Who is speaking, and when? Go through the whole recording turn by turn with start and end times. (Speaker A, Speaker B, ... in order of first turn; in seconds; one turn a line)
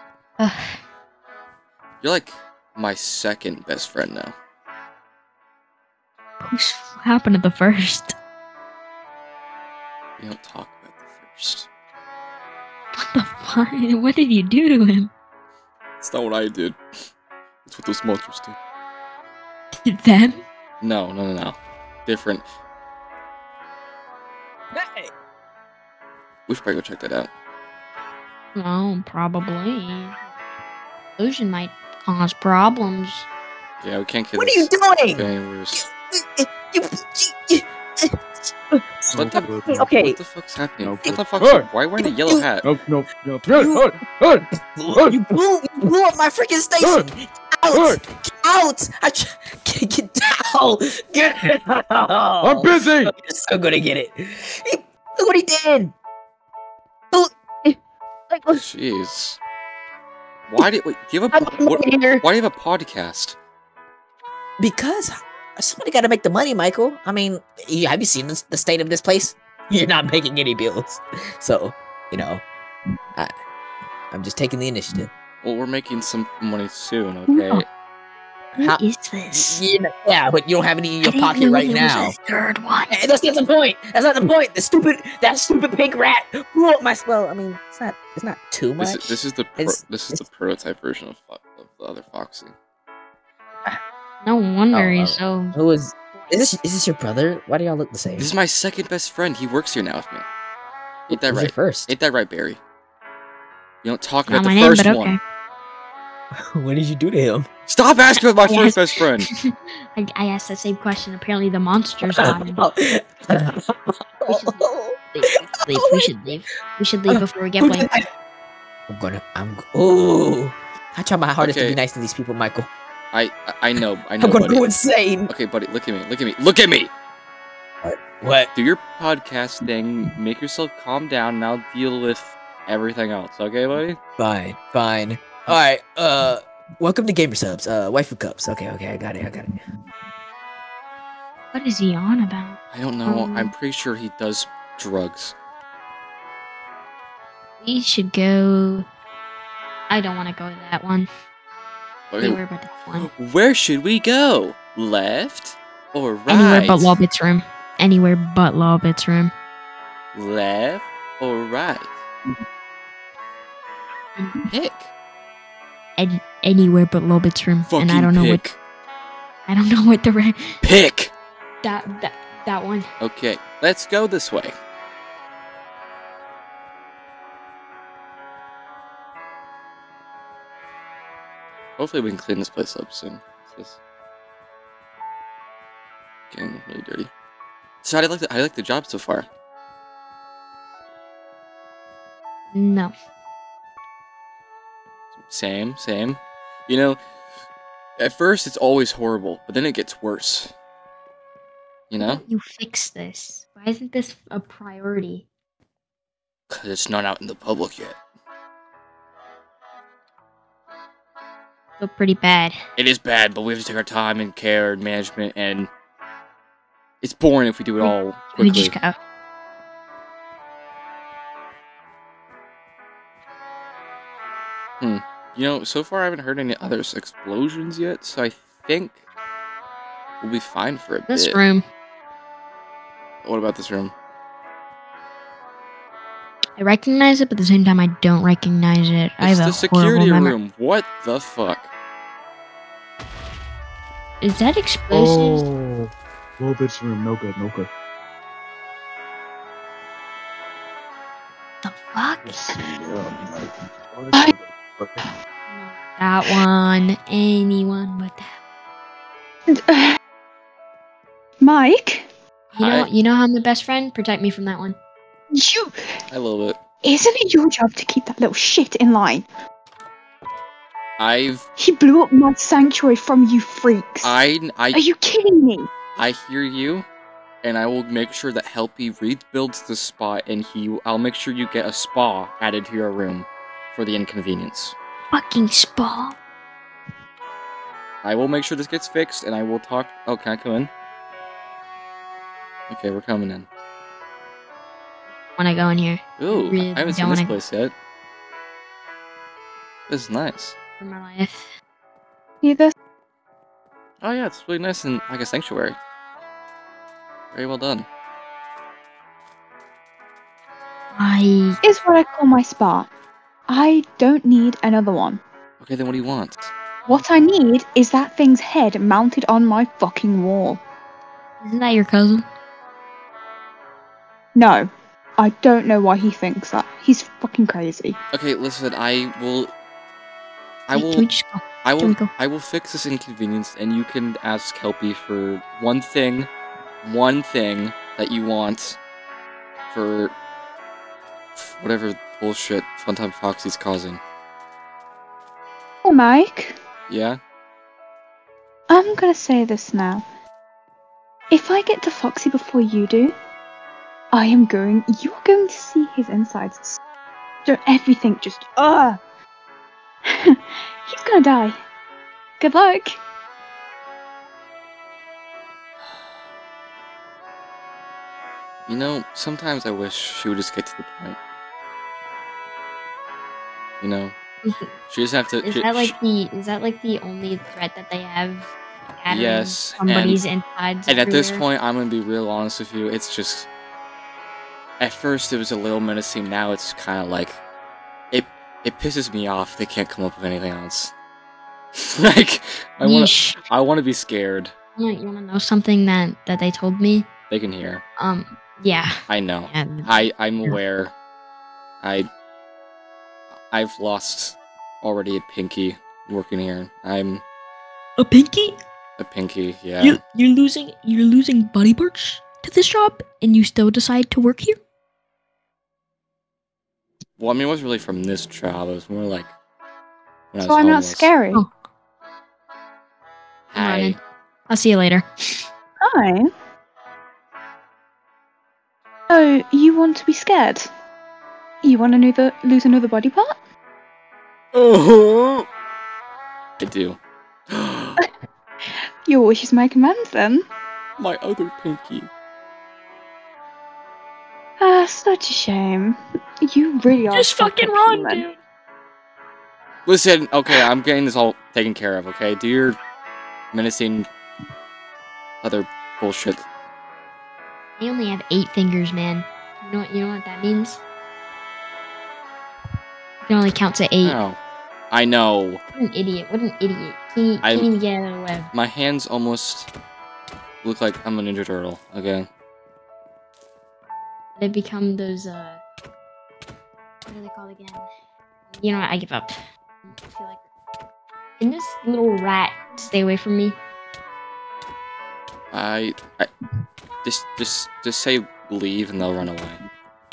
Speaker A: 0.4-0.8
Speaker B: 2.0-4.3
Speaker A: 6.4-8.1
Speaker B: 10.2-11.7
Speaker A: 12.9-15.1
Speaker B: 16.0-16.8
Speaker B: 17.6-18.6
Speaker A: 19.7-20.4
Speaker B: 20.8-22.4
Speaker C: 24.7-25.1
Speaker B: 26.5-27.3
Speaker A: 28.5-30.3
Speaker A: 31.2-33.3
Speaker B: 33.8-35.8
Speaker C: 34.4-40.2
Speaker D: 39.1-39.9
Speaker B: 39.2-42.7
Speaker D: 40.8-41.7
Speaker C: 41.0-41.4
Speaker C: 42.0-42.5
Speaker D: 42.6-44.5
Speaker C: 43.5-43.9
Speaker C: 44.6-55.9
Speaker D: 46.8-47.0
Speaker D: 47.7-48.0
Speaker D: 52.4-53.1
Speaker C: 57.1-57.8
Speaker C: 58.3-58.6
Speaker B: 58.5-59.4
Speaker B: 60.5-63.4
Speaker C: 61.3-62.2
Speaker C: 64.6-72.4
Speaker C: 74.1-75.1
Speaker B: 75.4-77.7
Speaker A: 77.3-77.6
Speaker A: 78.6-79.6
Speaker C: 79.3-82.1
Speaker A: 81.0-83.0
Speaker C: 82.9-90.2
Speaker B: 88.8-92.5
Speaker A: 94.2-95.5
Speaker C: 94.7-98.3
Speaker A: 96.1-96.5
Speaker B: 98.2-100.2
Speaker B: 101.1-102.6
Speaker C: 101.1-101.9
Speaker B: 103.8-105.1
Speaker A: 104.3-105.2
Speaker C: 106.3-107.5
Speaker B: 107.7-109.3
Speaker A: 108.5-112.6
Speaker C: 112.0-115.0
Speaker A: 114.2-117.9
Speaker C: 115.7-116.0
Speaker C: 117.1-118.1
Speaker C: 118.9-122.7
Speaker B: 121.4-121.8
Speaker B: 123.1-124.6
Speaker C: 124.2-125.3
Speaker B: 125.3-126.9
Speaker C: 127.8-128.5
Speaker B: 128.5-134.0
Speaker C: 134.2-139.6
Speaker A: 141.5-143.5
Speaker B: 142.7-145.3
Speaker A: 147.6-148.8
Speaker A: 149.9-151.1
Speaker B: 152.1-152.4
Speaker A: 152.2-153.1
Speaker B: 153.0-157.0
Speaker A: 156.3-159.3
Speaker B: 160.1-161.9
Speaker A: 164.2-164.5
Speaker B: 164.5-164.9
Speaker A: 166.0-168.4
Speaker B: 167.7-168.6
Speaker A: 169.5-170.6
Speaker B: 170.6-171.1
Speaker A: 171.6-172.9
Speaker B: 173.0-174.5
Speaker B: 181.8-183.8
Speaker B: 186.3-187.1
Speaker B: 187.8-189.3
Speaker A: 192.5-192.9
Speaker B: 195.2-197.0
Speaker B: 198.0-200.5
Speaker B: 201.9-202.2
Speaker A: 202.0-205.2
Speaker B: 206.5-208.0
Speaker A: 211.8-212.6
Speaker B: 212.8-215.7
Speaker B: 217.0-218.7
Speaker A: 217.8-219.0
Speaker B: 224.8-229.0
Speaker B: 230.2-231.4
Speaker A: 231.1-231.6
Speaker B: 233.2-233.9
Speaker A: 236.6-240.3
Speaker B: 239.2-241.7
Speaker A: 244.2-245.5
Speaker D: 244.9-247.7
Speaker A: 251.6-252.5
Speaker D: 252.2-255.0
Speaker A: 255.5-258.3
Speaker E: 259.5-260.0
Speaker E: 261.4-262.1
Speaker A: 262.5-264.8
Speaker B: 262.6-262.9
Speaker E: 265.3-265.8
Speaker B: 266.1-266.6
Speaker E: 266.8-269.3
Speaker B: 271.0-271.5
Speaker E: 271.6-274.1
Speaker B: 274.0-274.8
Speaker E: 274.7-275.7
Speaker B: 276.0-276.9
Speaker B: 277.4-284.8
Speaker A: 285.1-286.2
Speaker B: 288.0-290.7
Speaker B: 292.7-293.5
Speaker A: 295.4-297.4
Speaker B: 296.2-297.7
Speaker B: 299.9-300.6
Speaker A: 300.8-301.5
Speaker E: 302.4-302.7
Speaker B: 304.0-305.8
Speaker B: 307.3-307.9
Speaker A: 310.9-311.6
Speaker E: 311.6-312.9
Speaker E: 313.5-315.2
Speaker B: 315.6-317.0
Speaker E: 316.9-320.6
Speaker A: 321.4-322.2
Speaker E: 324.3-328.0
Speaker B: 328.1-329.5
Speaker B: 330.7-331.1
Speaker A: 330.8-332.1
Speaker B: 331.6-336.3
Speaker B: 336.8-338.8
Speaker B: 339.7-340.1
Speaker B: 341.4-344.0
Speaker E: 345.8-346.6
Speaker B: 346.9-347.2
Speaker E: 348.7-350.1
Speaker E: 351.3-353.1
Speaker E: 354.1-356.8
Speaker E: 357.4-359.0
Speaker E: 360.0-361.6
Speaker E: 362.4-363.0
Speaker B: 368.7-371.2
Speaker B: 373.8-374.1
Speaker A: 374.4-374.7
Speaker B: 374.9-375.9
Speaker A: 375.4-381.4
Speaker B: 379.1-380.2
Speaker B: 380.9-383.5
Speaker B: 384.8-387.4
Speaker B: 388.1-390.9
Speaker B: 391.8-394.5
Speaker A: 392.8-393.4
Speaker A: 394.8-397.1
Speaker B: 397.3-397.8
Speaker A: 398.0-400.6
Speaker B: 399.1-400.9
Speaker B: 401.8-402.1
Speaker B: 403.5-407.2
Speaker A: 408.0-408.6
Speaker B: 409.0-410.0
Speaker A: 409.8-414.6
Speaker B: 417.2-419.3
Speaker B: 420.3-421.1
Speaker E: 420.4-421.4
Speaker B: 423.5-424.0
Speaker A: 423.5-424.0
Speaker A: 424.5-425.4
Speaker E: 425.8-426.3
Speaker E: 429.1-430.7
Speaker E: 431.6-433.4
Speaker B: 434.5-435.5
Speaker B: 436.6-437.0
Speaker B: 437.5-438.0
Speaker E: 439.1-440.4
Speaker B: 441.0-442.1
Speaker E: 444.6-448.3
Speaker A: 447.1-448.4
Speaker B: 449.9-452.8
Speaker B: 453.5-454.1
Speaker B: 455.4-456.4
Speaker A: 457.8-460.8
Speaker A: 463.2-464.2
Speaker B: 464.0-464.4
Speaker B: 464.9-465.6
Speaker A: 465.8-468.5
Speaker B: 467.4-467.7
Speaker B: 468.5-469.7
Speaker B: 470.6-472.3
Speaker A: 474.4-475.6
Speaker A: 477.1-477.9
Speaker A: 478.5-480.4
Speaker A: 481.4-483.6
Speaker B: 485.5-486.3
Speaker B: 487.0-489.6